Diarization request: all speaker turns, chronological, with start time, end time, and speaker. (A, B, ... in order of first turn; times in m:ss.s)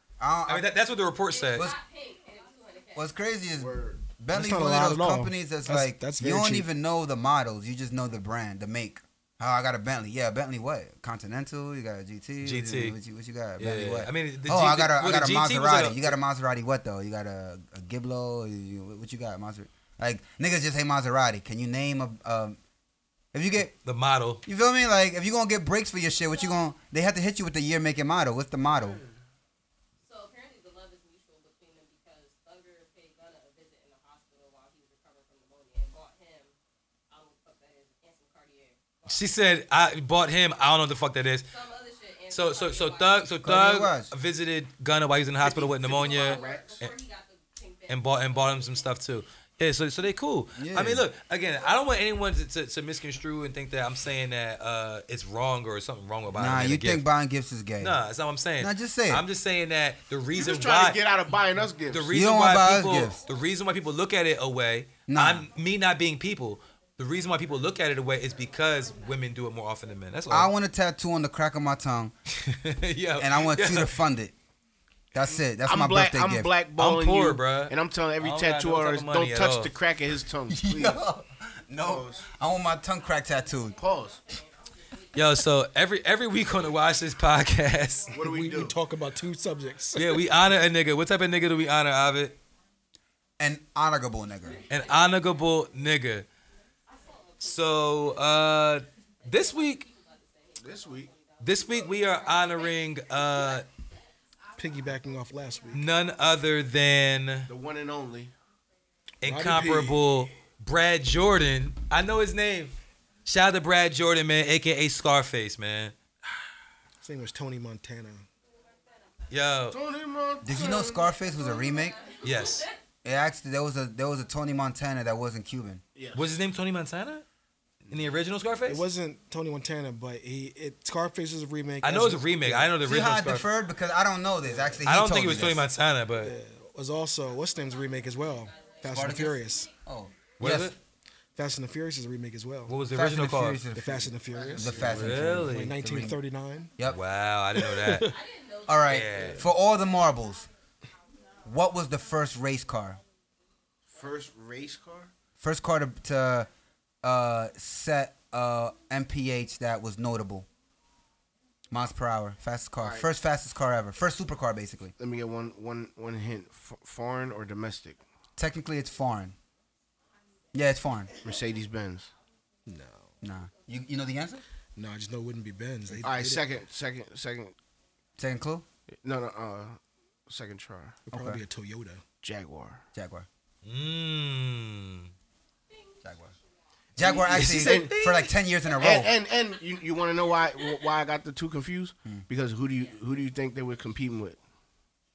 0:00.2-0:00.7 A
0:00.5-0:01.7 B
0:01.3-0:03.2 C
0:03.0-0:22.6 A
0:03.5-0:04.0 D
0:04.3-0:06.7 E
0:12.4-0:13.0 B
0:13.6-0:16.2 B
0:23.3-0:23.7 A
0:23.8-0:24.4 B
0:24.5-0:29.0 A
0:28.7-0:29.2 D
0:30.0-0:36.5 C
0:37.1-0:39.2 C
0:39.1-0:41.5 B
0:41.4-0:43.4 C
0:42.3-0:47.0 B
0:43.4-0:44.1 A
0:45.4-0:46.8 D
0:45.8-0:49.2 C
0:47.9-0:57.0 B
0:50.6-0:51.1 A
0:56.3-0:58.0 A
0:57.8-1:01.0 B
0:58.6-0:59.3 A
1:00.3-1:02.1 D
1:01.9-1:10.5 B
1:02.1-1:03.2 A
1:05.1-1:05.5 A
1:10.3-1:12.1 A
1:12.3-1:14.0 B
1:13.2-1:14.3 A
1:15.1-1:16.5 A
1:15.6-1:21.0 D
1:16.8-1:19.7 B
1:20.5-1:23.8 A
1:21.8-1:22.3 D
1:23.2-1:25.5 C
1:23.8-1:24.2 D
1:25.1-1:28.2 B
1:26.6-1:27.0 C
1:28.1-1:28.8 D
1:28.2-1:30.2 E
1:30.0-1:32.4 B
1:33.4-1:34.6 A
1:34.4-1:35.6 C
1:34.7-1:36.3 B
1:36.9-1:43.7 C
1:37.4-1:39.8 B
1:40.6-1:41.1 D
1:41.4-1:43.7 B
1:44.6-1:45.9 E
1:45.7-1:46.2 C
1:45.7-1:47.5 B
1:47.5-1:48.3 D
1:49.2-1:52.8 B
1:49.2-1:50.0 E
1:53.3-1:56.0 B
1:57.0-1:58.2 E
1:58.6-1:59.2 C
1:59.3-1:59.8 B
1:59.7-2:01.3 D
2:00.4-2:02.0 A
2:00.9-2:02.8 C
2:02.2-2:02.7 B
2:03.0-2:05.8 A
2:06.0-2:06.3 D
2:06.1-2:07.2 B
2:07.9-2:08.8 B
2:08.7-2:12.7 E
2:11.8-2:13.5 B
2:12.8-2:15.7 A
2:14.5-2:14.8 D
2:14.8-2:16.3 B
2:16.2-2:19.7 E
2:17.4-2:19.7 C
2:18.8-2:20.8 A
2:20.4-2:20.8 B
2:21.4-2:22.8 E
2:22.7-2:23.6 B
2:22.9-2:26.2 A
2:23.8-2:26.7 E
2:24.3-2:25.2 D
2:24.8-2:25.8 B
2:26.9-2:28.1 B
2:27.5-2:28.2 E
2:28.0-2:29.4 C
2:28.7-2:30.5 A
2:28.9-2:29.5 B
2:31.4-2:33.0 A
2:33.9-2:35.1 D
2:35.4-2:36.5 A
2:37.0-2:40.5 A
2:41.7-2:44.9 A
2:42.8-2:43.1 D
2:45.0-2:48.0 D
2:48.4-2:49.4 A
2:50.5-2:51.1 A
2:51.2-2:52.1 D
2:52.7-2:53.1 E
2:53.2-2:54.4 A
2:54.8-2:56.4 E
2:56.0-2:57.6 D
2:58.2-2:58.6 A
2:58.9-3:01.0 D
3:01.1-3:02.0 E
3:01.1-3:01.4 A
3:02.2-3:02.8 D
3:02.9-3:03.3 A
3:03.6-3:05.1 B
3:05.7-3:06.0 C
3:06.0-3:06.3 A
3:07.0-3:09.1 A
3:07.0-3:08.0 D
3:07.3-3:08.4 B
3:08.8-3:14.4 D